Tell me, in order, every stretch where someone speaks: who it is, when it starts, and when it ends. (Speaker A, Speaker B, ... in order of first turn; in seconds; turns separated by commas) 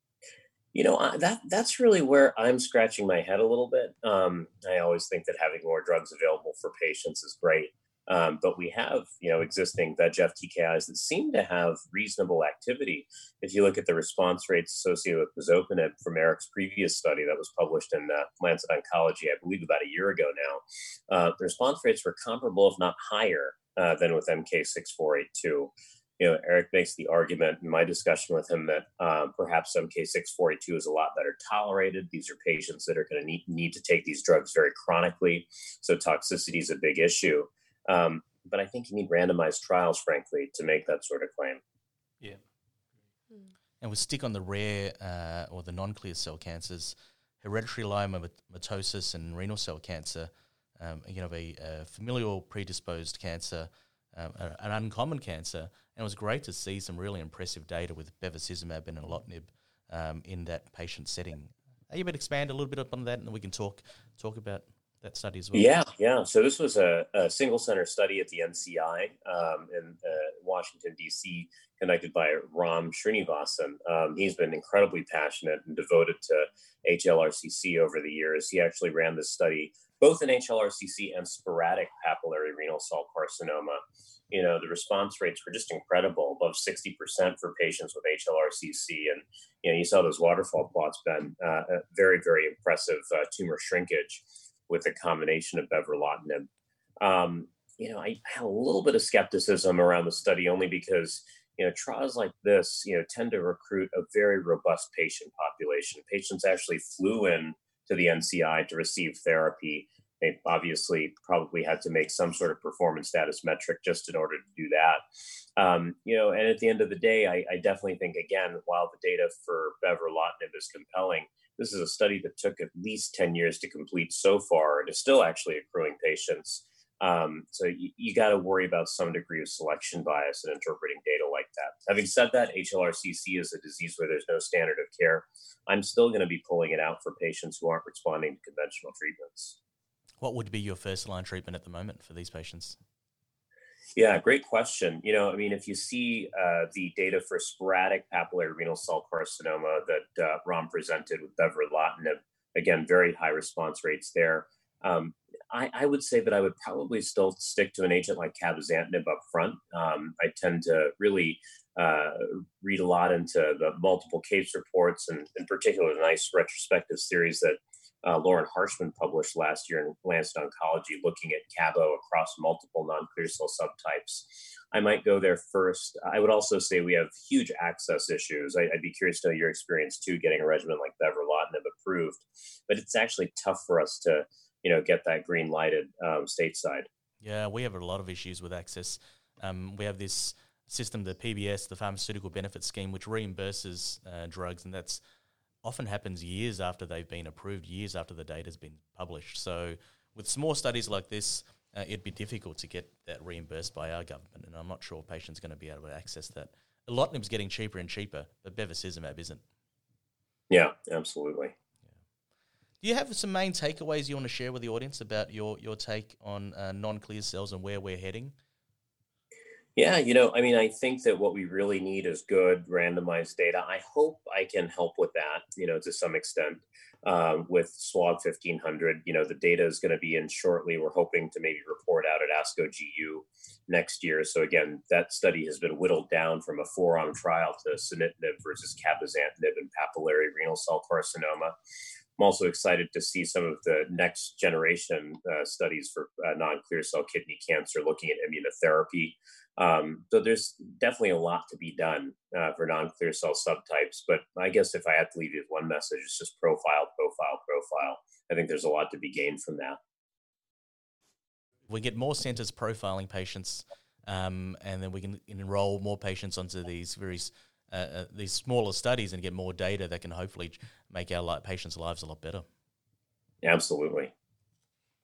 Speaker A: 0.7-41.6, Speaker B: 43.8-65.7, Speaker A: 65.5-96.5, Speaker A: 97.0-115.0, Speaker A: 115.6-139.6, Speaker B: 140.2-142.8, Speaker A: 143.9-186.9, Speaker B: 187.2-195.0, Speaker B: 195.6-209.4, Speaker A: 210.5-211.5, Speaker B: 212.8-218.3, Speaker A: 219.8-241.5, Speaker A: 242.2-259.8, Speaker B: 261.7-272.4, Speaker A: 273.4-274.1